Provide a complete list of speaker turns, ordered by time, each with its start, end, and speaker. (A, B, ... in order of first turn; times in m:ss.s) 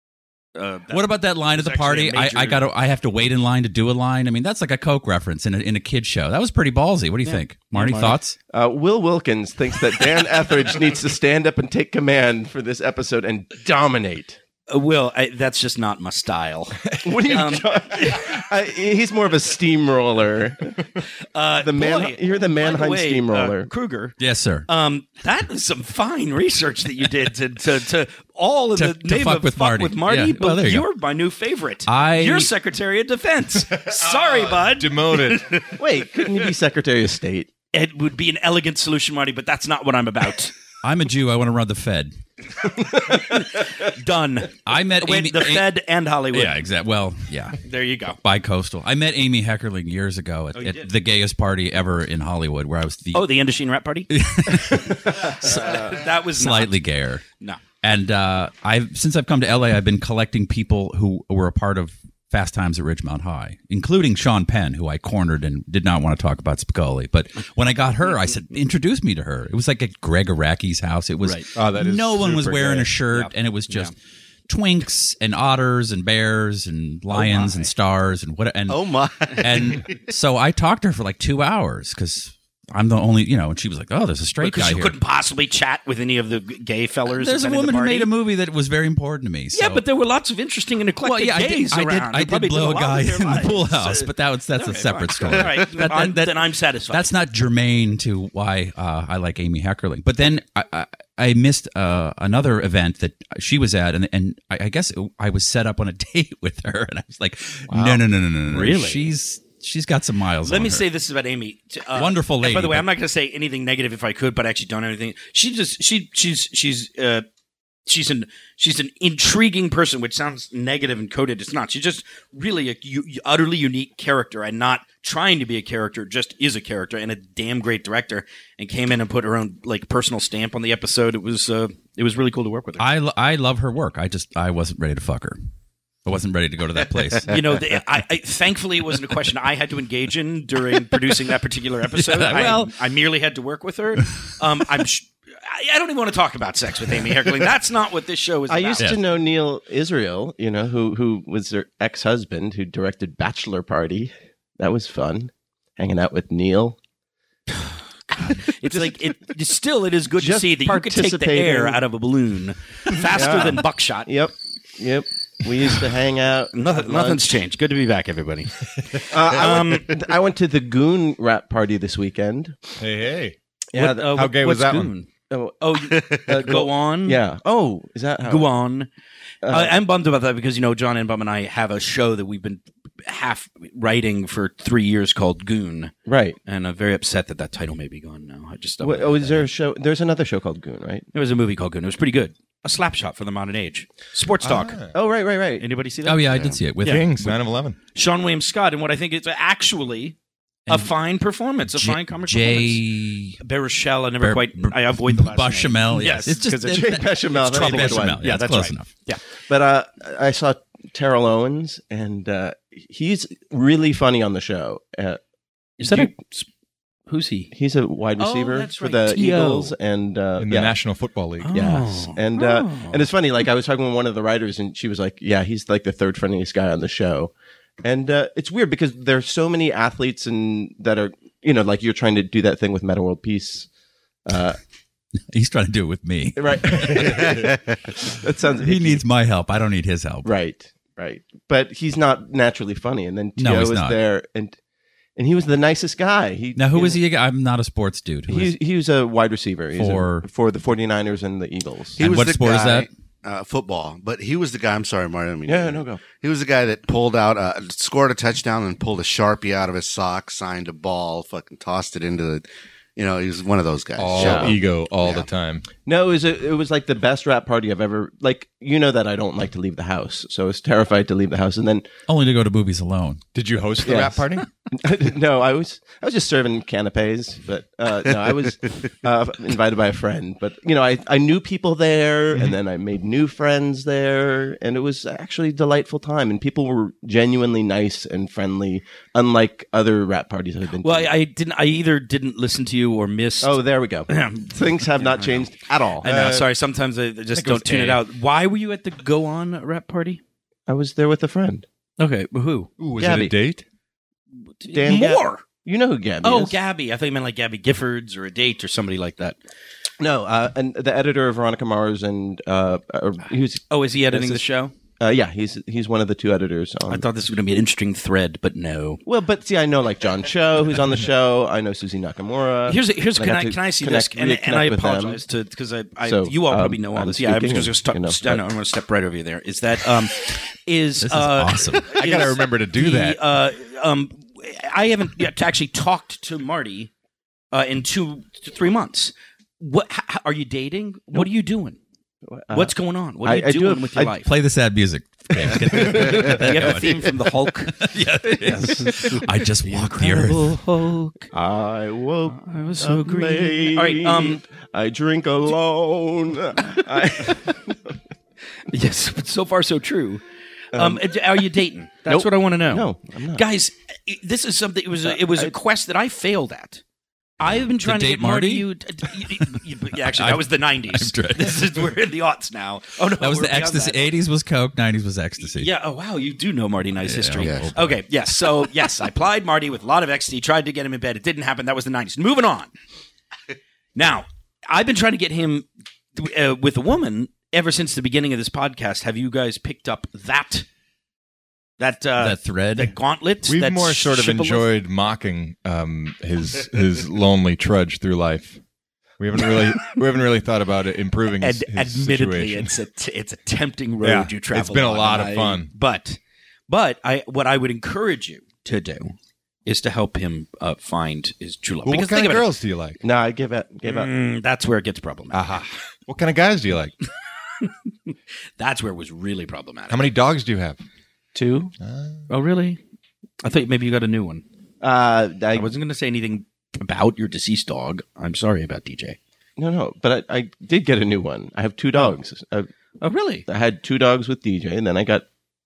0:00.6-0:02.6 A
0:00.9-0:08.4 B
0:07.2-0:08.2 A
0:08.5-0:14.4 C
0:14.7-0:18.4 A
0:17.0-0:20.9 C
0:21.3-0:24.2 A
0:21.6-0:23.7 C
0:24.2-0:24.7 B
0:24.7-0:35.8 A
0:28.8-0:30.8 B
0:31.9-0:32.5 B
0:33.8-0:35.6 D
0:35.8-0:37.5 C
0:37.7-0:40.5 A
0:40.8-0:42.1 B
0:43.0-0:46.5 A
0:44.7-0:45.7 B
0:46.3-0:47.6 B
0:47.6-0:48.2 A
0:48.2-0:53.3 B
0:50.6-0:50.9 A
0:53.1-0:54.1 A
0:54.1-0:57.2 B
0:55.1-0:56.8 A
0:57.8-1:13.9 B
1:11.2-1:11.5 A
1:11.6-1:12.9 D
1:13.1-1:13.9 A
1:14.5-1:25.0 B
1:17.1-1:17.7 A
1:18.7-1:20.0 E
1:24.4-1:28.1 A
1:27.1-1:29.8 B
1:29.5-1:37.1 A
1:31.0-1:50.8 B
1:47.7-1:49.1 A
1:50.4-1:57.2 A
1:51.9-1:52.9 B
1:57.9-2:12.9 A
2:12.8-2:15.4 B
2:16.0-2:17.3 B
2:17.3-2:28.9 A
2:21.9-2:22.7 B
2:28.5-2:36.8 C
2:37.6-2:44.1 A
2:38.7-2:39.2 C
2:40.2-2:41.8 C
2:43.0-2:47.3 C
2:46.5-2:49.9 A
2:49.1-2:52.6 C
2:52.8-2:54.9 D
2:53.7-2:54.3 C
2:53.7-2:55.1 A
2:55.3-2:58.5 C
2:55.6-2:57.2 A
2:58.2-2:58.9 A
2:59.4-2:59.7 C
2:59.5-3:05.9 A
3:06.1-3:06.4 C
3:06.4-3:09.5 A
3:08.8-3:11.1 C
3:11.1-3:14.9 A
3:14.4-3:15.0 D
3:14.9-3:15.6 C
3:15.6-3:17.1 A
3:16.0-3:17.5 B
3:16.8-3:17.8 D
3:17.9-3:20.2 A
3:20.7-3:20.9 B
3:20.7-3:22.8 A
3:21.7-3:23.4 B
3:23.4-3:29.2 A
3:24.2-3:28.9 B
3:26.4-3:28.5 C
3:29.5-3:35.2 C
3:35.8-3:36.5 A
3:35.8-3:36.2 C
3:37.1-3:37.5 A
3:37.5-3:40.8 C
3:38.2-3:39.7 A
3:40.4-3:41.6 D
3:41.4-3:43.0 A
3:41.5-3:47.3 C
3:47.8-3:53.7 C
3:54.3-3:54.6 C
3:55.3-3:57.4 B
3:56.4-3:59.0 C
3:58.6-4:00.3 B
4:00.2-4:04.6 C
4:03.4-4:04.0 B
4:05.2-4:07.0 C
4:06.6-4:08.6 B
4:08.3-4:12.0 C
4:09.8-4:10.3 B
4:12.0-4:22.4 E
4:12.0-4:12.9 B
4:15.5-4:16.0 C
4:23.0-4:24.6 E
4:24.0-4:25.7 D
4:24.2-4:25.2 C
4:25.8-4:31.9 C
4:32.1-4:33.2 B
4:33.3-4:34.5 D
4:33.8-4:51.1 C
4:50.8-4:55.5 A
4:53.4-4:56.1 C
4:56.0-5:00.2 A
4:56.0-4:56.5 D
4:57.3-4:58.0 D
5:00.7-5:01.6 C
5:02.0-5:02.7 A
5:02.8-5:03.6 D
5:03.0-5:03.4 C
5:04.6-5:05.4 A
5:04.7-5:06.6 C
5:06.2-5:09.4 A
5:10.0-5:14.4 C
5:13.7-5:14.7 A
5:15.0-5:17.1 C
5:16.9-5:19.0 A
5:19.0-5:25.2 C
5:22.7-5:36.9 A
5:26.0-5:28.4 C
5:31.0-5:31.9 B
5:31.9-5:33.2 D
5:37.5-5:41.8 A
5:42.3-5:44.2 C
5:42.5-5:44.3 A
5:44.2-5:50.6 B
5:45.4-5:46.3 C
5:45.8-5:51.3 A
5:51.3-5:57.9 C
5:52.3-5:54.4 A
5:58.7-6:00.2 A
6:00.7-6:06.8 A
6:00.7-6:01.1 C
6:02.1-6:03.5 C
6:05.1-6:05.5 C
6:07.4-6:14.2 A
6:07.4-6:08.7 B
6:09.2-6:11.8 B
6:13.2-6:15.7 B
6:15.4-6:22.7 A
6:17.0-6:18.0 B
6:17.4-6:17.7 E
6:24.0-6:30.7 A
6:31.8-6:34.7 A
6:32.2-6:32.9 B
6:33.5-6:38.6 D
6:39.2-6:42.7 D
6:41.4-6:52.5 A
6:44.0-6:45.7 D
6:51.8-6:53.0 D
6:53.0-6:54.1 C
6:53.8-6:55.4 A
6:55.3-6:56.9 D
6:57.6-7:00.1 A
6:59.9-7:00.8 D
7:01.4-7:01.7 C
7:01.8-7:02.2 D
7:02.3-7:02.8 A
7:03.4-7:04.4 A
7:04.8-7:05.7 C
7:05.5-7:09.2 A
7:09.6-7:12.7 C
7:13.0-7:13.5 A
7:13.5-7:15.2 C